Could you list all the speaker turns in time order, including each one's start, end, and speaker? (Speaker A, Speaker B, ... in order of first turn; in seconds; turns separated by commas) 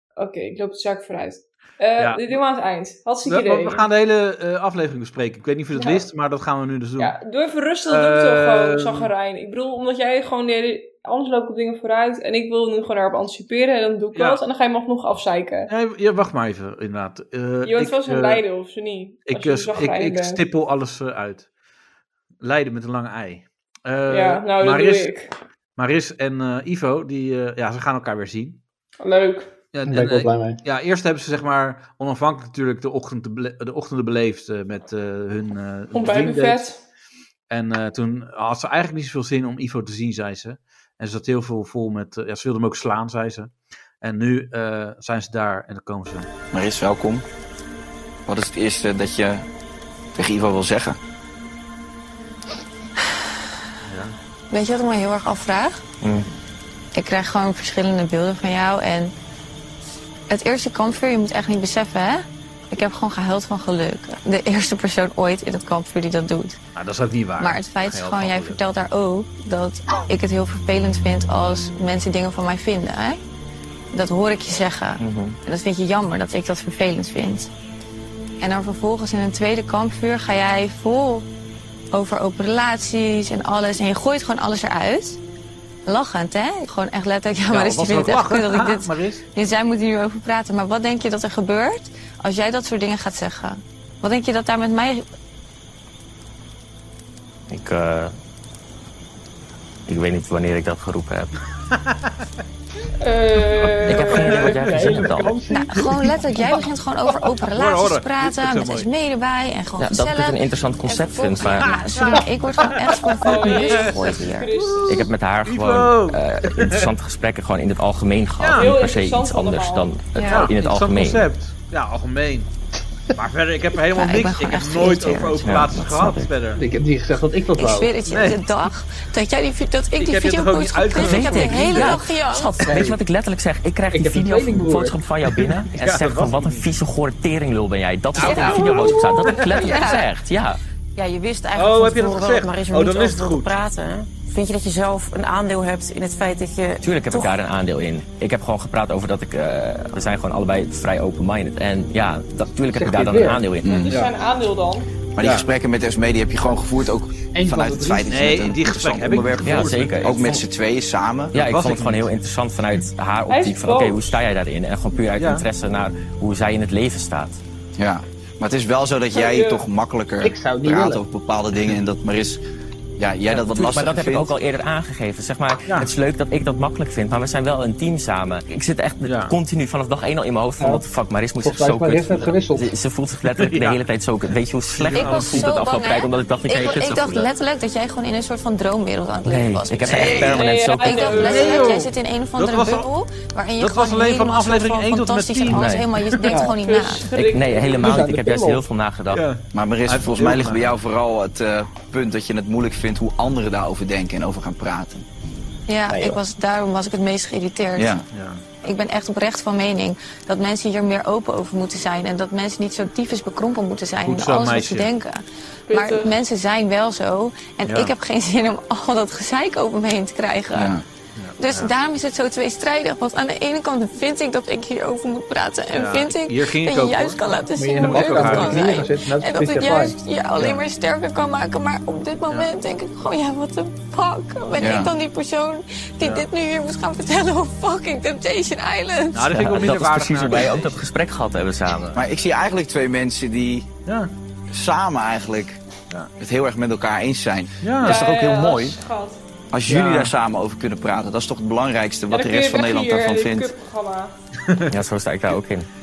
Speaker A: 0.2-3.8, Speaker B: 2.0-2.4, Speaker B: 3.2-7.2, Speaker A: 5.7-6.0, Speaker A: 7.0-15.7, Speaker B: 7.9-9.1, Speaker B: 14.2-14.4, Speaker B: 15.7-18.4, Speaker A: 17.6-20.4, Speaker B: 19.3-21.5, Speaker B: 22.4-25.1, Speaker A: 24.1-25.3, Speaker B: 25.8-28.6, Speaker A: 29.0-29.5, Speaker B: 29.7-36.7, Speaker C: 29.8-30.6, Speaker A: 35.9-36.8, Speaker B: 37.5-46.3, Speaker D: 46.5-47.2, Speaker D: 48.3-49.5, Speaker D: 50.2-51.0, Speaker B: 53.9-54.2, Speaker E: 54.5-55.8, Speaker F: 56.0-56.3, Speaker E: 57.0-59.1, Speaker E: 60.3-66.6, Speaker B: 66.8-68.6, Speaker E: 67.4-73.2, Speaker E: 73.9-77.5, Speaker F: 75.0-75.4, Speaker E: 78.4-81.3, Speaker E: 81.9-85.2, Speaker E: 85.9-95.0, Speaker B: 87.5-89.2, Speaker F: 97.5-98.1, Speaker F: 99.9-101.3, Speaker B: 101.7-102.2, Speaker A: 103.0-104.5, Speaker F: 103.7-105.4, Speaker B: 103.8-104.7, Speaker C: 104.2-106.1, Speaker E: 105.5-114.6, Speaker B: 105.8-106.0, Speaker B: 107.4-108.9, Speaker F: 109.8-111.7, Speaker B: 111.5-114.1, Speaker A: 113.1-115.1, Speaker F: 114.9-121.2, Speaker B: 115.5-116.9, Speaker B: 118.4-118.8, Speaker A: 118.5-119.9, Speaker E: 120.2-120.5, Speaker B: 120.3-122.5, Speaker B: 123.1-126.6, Speaker E: 123.9-125.6, Speaker F: 125.4-126.3, Speaker C: 126.5-127.9, Speaker E: 127.6-132.8, Speaker B: 128.1-128.4, Speaker B: 130.0-132.1, Speaker F: 131.0-140.6, Speaker C: 132.7-133.0, Speaker C: 133.9-135.0, Speaker B: 135.4-136.7, Speaker B: 138.1-139.5, Speaker E: 138.2-138.9, Speaker A: 138.4-138.9, Speaker E: 139.5-140.0, Speaker G: 141.0-147.3, Speaker B: 141.6-143.5, Speaker F: 146.8-153.7, Speaker C: 152.7-153.4, Speaker D: 153.6-153.9, Speaker A: 153.6-154.9, Speaker D: 155.1-161.3, Speaker B: 155.2-155.5, Speaker C: 157.3-158.3, Speaker B: 158.1-160.4, Speaker F: 159.4-160.4, Speaker F: 161.3-167.4, Speaker B: 161.3-162.1, Speaker A: 163.3-164.2, Speaker B: 165.2-165.5, Speaker D: 167.8-172.4, Speaker A: 169.1-169.6, Speaker C: 170.2-171.0, Speaker D: 173.0-174.3, Speaker F: 173.3-187.3, Speaker B: 179.1-179.4, Speaker C: 180.6-180.8, Speaker C: 181.4-182.7, Speaker B: 183.2-183.8, Speaker B: 184.7-185.6, Speaker E: 184.9-197.1, Speaker F: 189.3-191.4, Speaker A: 190.3-191.8, Speaker B: 191.2-192.9, Speaker B: 193.6-196.4, Speaker F: 195.5-195.9, Speaker C: 196.3-196.6, Speaker A: 196.6-198.0, Speaker F: 197.2-199.2, Speaker C: 197.8-198.7, Speaker B: 199.1-200.8, Speaker D: 199.5-205.1, Speaker E: 205.7-207.9, Speaker C: 205.9-206.2, Speaker D: 207.8-208.0, Speaker B: 208.1-208.4, Speaker E: 208.6-220.8, Speaker B: 214.0-214.9, Speaker A: 215.7-216.1, Speaker B: 217.7-217.9, Speaker D: 220.5-220.8, Speaker B: 221.2-221.7, Speaker E: 221.4-239.3, Speaker B: 225.7-227.2, Speaker C: 227.6-230.0, Speaker B: 227.8-228.8, Speaker B: 230.4-230.6, Speaker D: 234.6-234.9, Speaker B: 236.0-236.3, Speaker B: 239.1-240.9, Speaker F: 239.3-242.0, Speaker D: 241.9-243.7, Speaker B: 243.9-244.1, Speaker D: 244.5-245.6, Speaker D: 246.2-248.8, Speaker B: 247.6-248.0, Speaker A: 247.8-249.2, Speaker D: 249.5-253.5, Speaker C: 249.7-250.1, Speaker A: 252.1-254.1, Speaker B: 254.4-254.7, Speaker F: 254.7-255.7